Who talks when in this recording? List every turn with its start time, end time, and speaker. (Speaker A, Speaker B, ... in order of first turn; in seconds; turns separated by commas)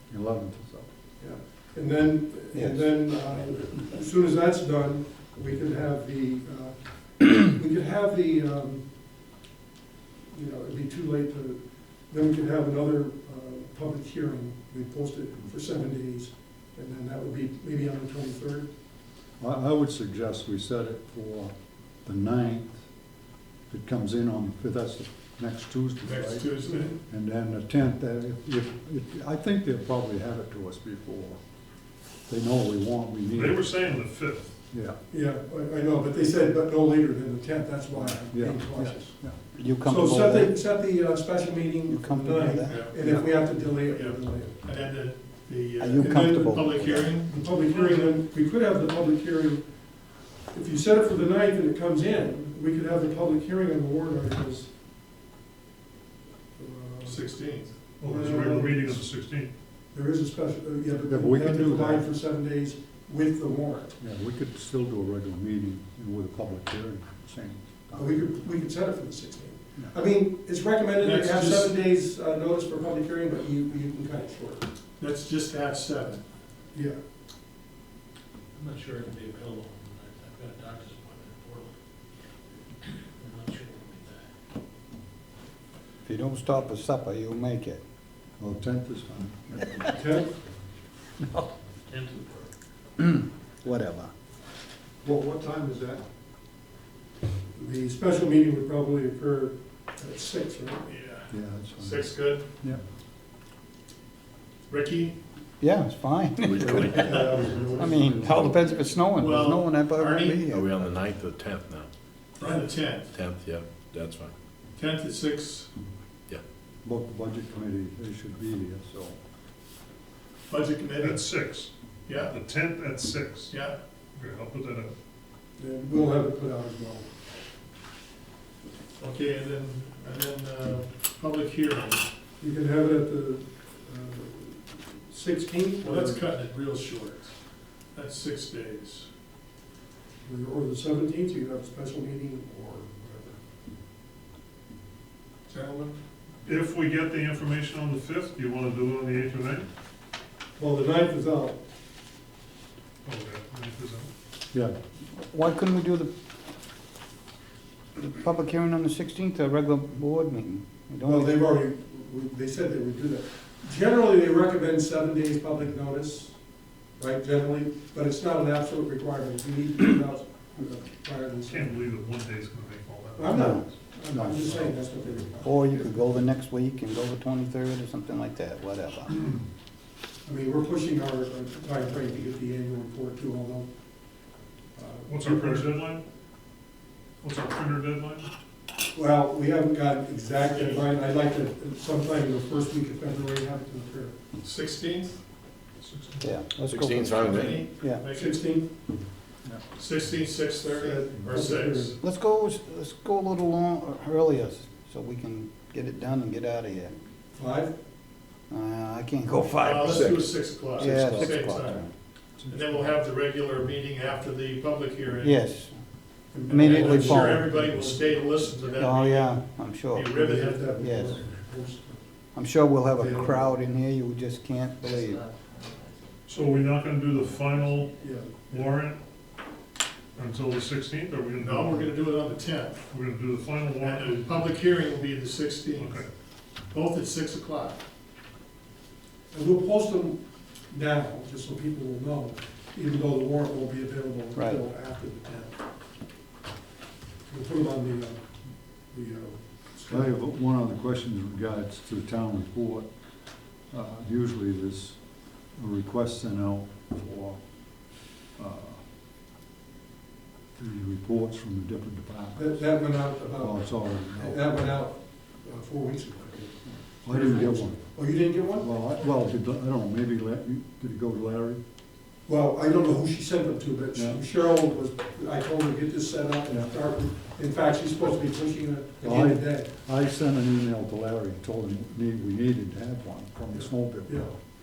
Speaker A: 0.1-0.9, Speaker B: 1.2-8.8, Speaker C: 2.5-2.8, Speaker B: 10.3-18.7, Speaker A: 19.4-22.8, Speaker A: 23.7-26.5, Speaker D: 26.0-26.9, Speaker A: 27.1-31.4, Speaker A: 32.3-34.0, Speaker E: 33.3-34.5, Speaker A: 34.7-35.0, Speaker B: 35.1-39.2, Speaker A: 37.9-39.4, Speaker C: 39.5-40.6, Speaker B: 39.8-44.6, Speaker C: 41.9-42.8, Speaker D: 42.6-48.1, Speaker A: 43.0-43.2, Speaker C: 45.8-47.1, Speaker B: 46.1-46.5, Speaker B: 47.3-49.7, Speaker B: 50.5-54.7, Speaker B: 56.5-57.2, Speaker D: 57.0-57.8, Speaker B: 58.0-59.0, Speaker E: 58.0-59.5, Speaker B: 59.9-63.9, Speaker A: 61.1-62.1, Speaker A: 64.0-68.2, Speaker B: 67.9-74.7, Speaker D: 71.0-71.7, Speaker D: 75.0-76.2, Speaker B: 76.7-77.0, Speaker F: 78.5-81.7, Speaker F: 83.0-84.3, Speaker C: 86.0-87.8, Speaker A: 88.4-89.9, Speaker B: 89.9-90.3, Speaker F: 91.9-92.5, Speaker C: 93.0-94.1, Speaker A: 95.0-96.0, Speaker B: 97.5-100.9, Speaker D: 100.9-102.5, Speaker A: 101.3-102.1, Speaker D: 104.7-105.1, Speaker C: 105.6-110.8, Speaker G: 106.4-107.7, Speaker B: 106.6-108.5, Speaker D: 106.9-110.5, Speaker G: 110.5-111.9, Speaker D: 112.4-113.1, Speaker G: 113.1-114.3, Speaker D: 114.8-115.7, Speaker A: 116.8-119.2, Speaker D: 120.5-121.3, Speaker E: 121.0-123.6, Speaker D: 122.0-122.3, Speaker D: 123.5-123.8, Speaker E: 124.1-124.9, Speaker B: 125.6-127.1, Speaker D: 129.0-132.1, Speaker B: 132.4-136.2, Speaker D: 135.8-137.3, Speaker D: 137.9-139.1, Speaker B: 140.2-143.4, Speaker D: 145.5-145.9, Speaker E: 146.4-149.7, Speaker B: 150.6-151.6, Speaker E: 153.0-154.1, Speaker C: 155.1-156.1, Speaker C: 157.9-161.3, Speaker B: 161.1-166.4, Speaker B: 167.0-171.8, Speaker E: 171.5-173.6, Speaker B: 173.2-176.0, Speaker C: 173.3-174.4, Speaker A: 174.1-174.7, Speaker C: 175.4-179.1, Speaker B: 180.2-183.7, Speaker B: 184.7-185.8, Speaker E: 185.1-186.0, Speaker E: 187.2-188.3, Speaker B: 188.9-194.2, Speaker D: 190.5-190.8, Speaker D: 194.4-195.2, Speaker E: 195.8-196.4, Speaker C: 196.2-198.0, Speaker G: 196.7-197.7, Speaker D: 197.2-198.6, Speaker B: 198.1-198.7, Speaker D: 199.8-201.9, Speaker B: 200.7-201.9, Speaker C: 202.0-206.9, Speaker B: 207.3-207.7, Speaker C: 208.5-211.9, Speaker D: 209.6-215.4, Speaker A: 209.8-210.2, Speaker A: 210.8-211.3, Speaker A: 212.4-212.9, Speaker C: 215.2-217.5, Speaker B: 216.3-218.8, Speaker D: 216.5-219.4, Speaker C: 218.8-220.1, Speaker D: 219.9-220.9, Speaker B: 220.1-222.0, Speaker C: 220.8-221.2, Speaker C: 222.3-225.2, Speaker B: 222.9-223.5, Speaker F: 224.8-228.6, Speaker E: 226.2-227.9, Speaker B: 228.0-228.3, Speaker E: 228.5-229.0, Speaker E: 230.1-231.9, Speaker D: 231.4-232.8, Speaker E: 232.9-234.6, Speaker D: 233.8-236.1, Speaker E: 235.7-236.1, Speaker D: 236.7-237.8, Speaker B: 239.3-245.6, Speaker C: 244.3-244.6, Speaker B: 247.3-248.2, Speaker B: 248.9-250.1, Speaker A: 249.9-252.9, Speaker A: 253.7-255.0, Speaker A: 255.6-257.4, Speaker A: 258.4-258.8, Speaker A: 260.6-262.8, Speaker B: 262.3-268.7, Speaker A: 263.4-264.6, Speaker A: 267.0-271.6, Speaker B: 272.3-279.7, Speaker A: 273.9-274.2, Speaker A: 279.0-284.4, Speaker B: 283.5-284.3